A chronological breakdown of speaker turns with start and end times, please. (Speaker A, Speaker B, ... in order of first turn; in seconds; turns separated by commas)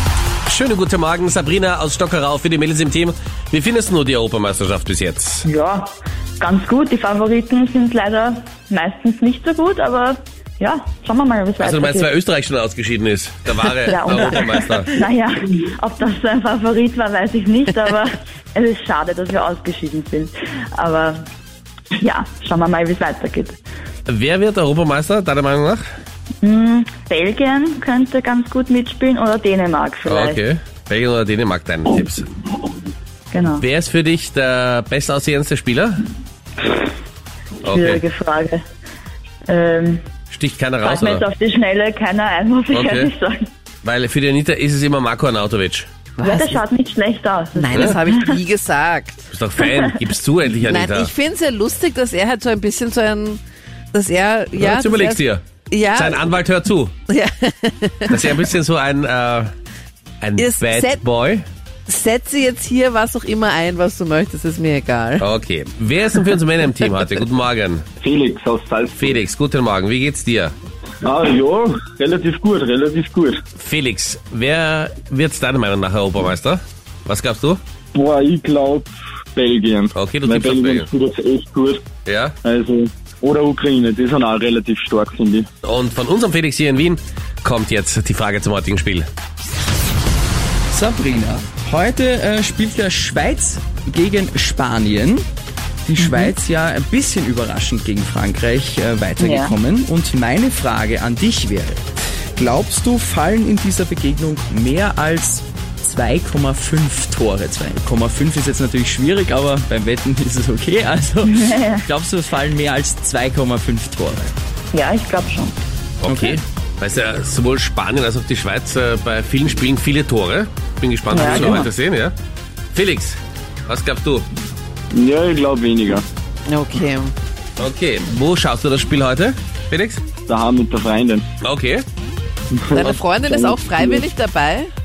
Speaker A: 0.5-5.4, Speaker B: 5.4-12.1, Speaker A: 11.6-14.9, Speaker B: 13.8-21.2, Speaker B: 22.0-23.6, Speaker A: 24.1-25.8, Speaker B: 26.4-30.4, Speaker A: 30.1-32.2, Speaker B: 33.3-33.6, Speaker A: 33.6-36.1, Speaker A: 37.6-38.0, Speaker B: 37.7-38.6, Speaker B: 39.5-40.0, Speaker A: 40.3-41.2, Speaker B: 40.8-43.4, Speaker A: 42.7-43.1, Speaker A: 43.8-45.9, Speaker C: 46.2-46.6, Speaker B: 46.2-48.4, Speaker C: 47.5-49.3, Speaker A: 49.3-51.1, Speaker C: 50.6-53.4, Speaker C: 53.9-56.3, Speaker A: 54.6-55.4, Speaker A: 55.9-56.9, Speaker C: 57.1-58.4, Speaker A: 58.1-59.5, Speaker A: 60.2-61.5, Speaker C: 60.4-61.0, Speaker C: 61.9-65.3, Speaker A: 65.2-67.8, Speaker D: 68.0-69.2, Speaker A: 69.0-70.5, Speaker D: 71.0-73.4, Speaker A: 73.6-77.6, Speaker D: 77.9-81.8, Speaker A: 80.0-80.9, Speaker A: 82.0-82.3, Speaker D: 82.4-85.5, Speaker A: 85.6-89.1, Speaker E: 90.7-95.2, Speaker E: 95.8-101.8, Speaker B: 96.0-96.3, Speaker B: 99.2-99.5, Speaker E: 102.4-114.3, Speaker B: 111.2-111.8, Speaker B: 114.7-115.5, Speaker A: 116.0-122.1, Speaker B: 121.1-121.7, Speaker A: 122.7-124.2, Speaker D: 124.9-126.0, Speaker C: 126.5-127.1, Speaker A: 127.6-130.0, Speaker D: 130.3-131.2, Speaker A: 131.4-131.8, Speaker D: 132.5-134.0, Speaker C: 132.7-134.7